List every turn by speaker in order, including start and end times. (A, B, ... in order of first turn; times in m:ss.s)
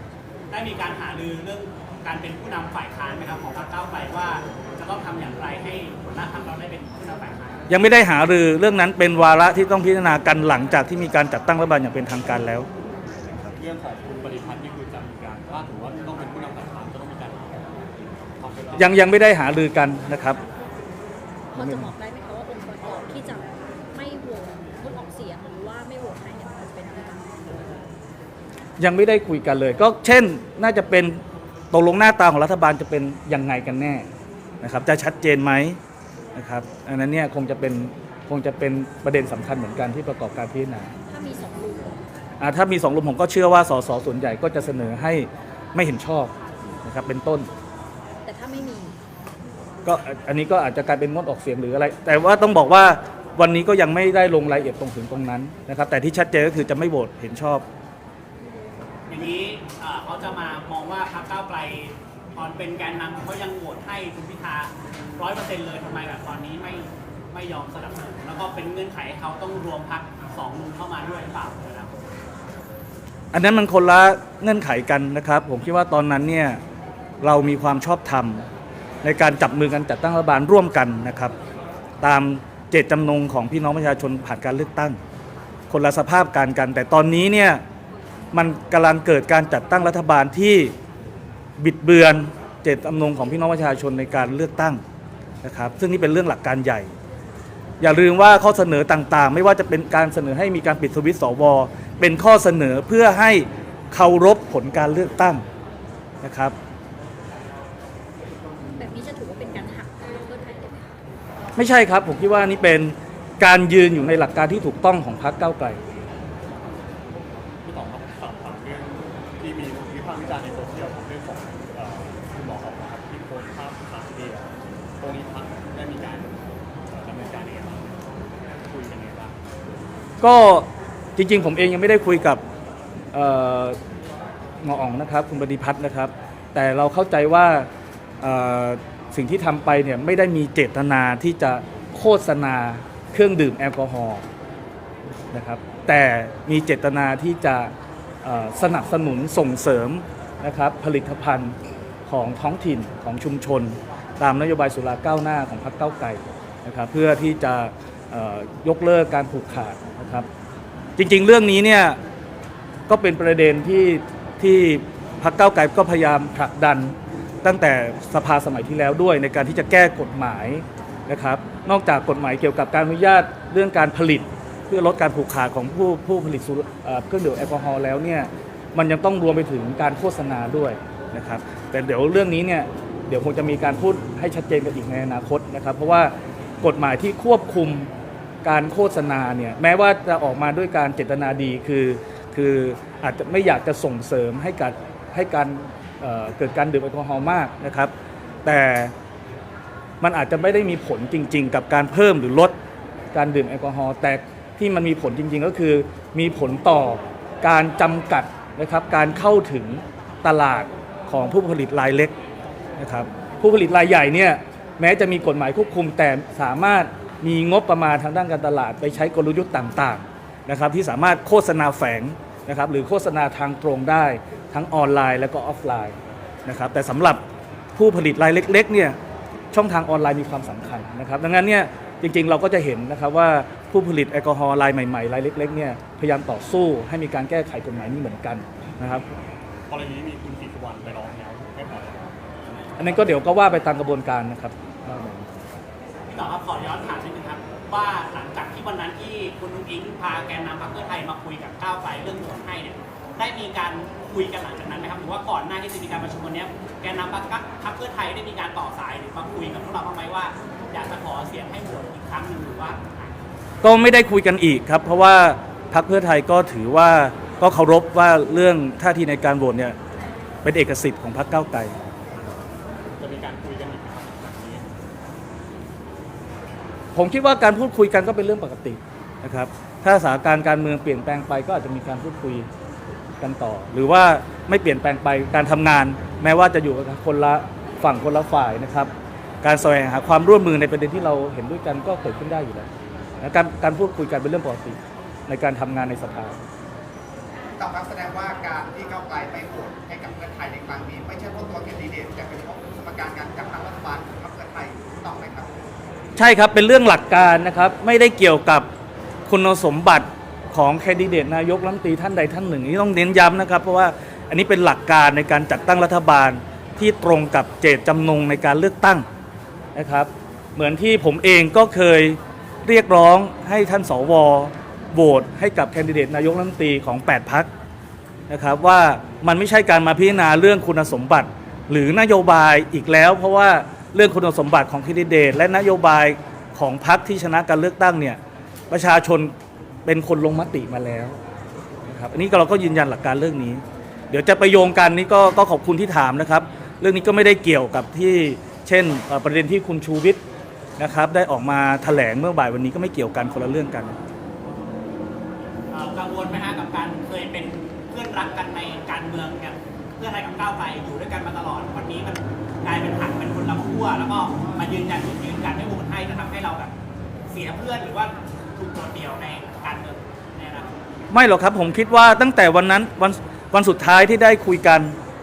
0:00.5-0:07.7 A
0:07.7-0:12.7 B
0:13.4-0:19.0 C
0:18.8-0:20.4 B
0:21.5-0:21.9 B
0:21.5-0:27.4 D
0:28.8-0:34.1 B
0:34.6-0:35.8 B
0:36.3-0:40.9 B
0:41.1-0:42.0 D
0:42.4-0:46.3 B
0:46.8-0:47.5 B
0:48.2-0:48.9 D
0:49.8-0:57.6 B
0:59.1-1:12.1 A
1:13.3-1:16.6 B
1:17.2-1:18.5 B
1:19.0-1:21.3 B
1:22.0-1:25.0 B
1:25.7-1:27.6 B
1:28.3-1:30.7 B
1:31.6-1:34.8 B
1:35.4-1:36.9 B
1:37.8-1:45.4 B
1:46.2-1:46.5 B
1:48.8-1:50.9 D
1:51.6-1:55.8 B
1:57.6-2:08.1 C
2:08.6-2:09.4 C
2:10.2-2:12.4 B
2:13.1-2:13.8 B
2:14.6-2:17.7 B
2:18.2-2:24.2 B
2:25.3-2:27.7 B
2:28.2-2:40.3 B
2:41.0-2:42.0 B
2:42.9-3:07.9 B
3:08.4-3:17.9 B
3:18.4-3:18.9 B
3:20.0-3:22.5 B
3:23.1-3:32.1 B
3:32.8-3:47.2 B
3:47.8-3:49.0 B
3:49.5-3:59.0 B
3:59.7-4:02.3 C
4:02.8-4:05.3 B
4:06.1-4:23.2 A
4:23.6-4:29.8 B
4:30.4-4:31.7 B
4:33.0-4:34.6 C
4:36.9-4:42.5 B
4:43.2-4:48.9 B
4:49.4-4:52.7 B
4:53.2-4:56.4 B
4:57.6-5:05.6 E
5:06.2-5:08.7 B
5:09.3-5:19.0 B
5:19.7-5:27.5 B
5:28.3-5:39.3 B
5:39.8-5:41.2 B
5:41.8-5:50.2 B
5:50.8-5:54.0 B
5:55.7-6:06.7 A
6:07.3-6:10.9 A
6:11.1-6:15.0 B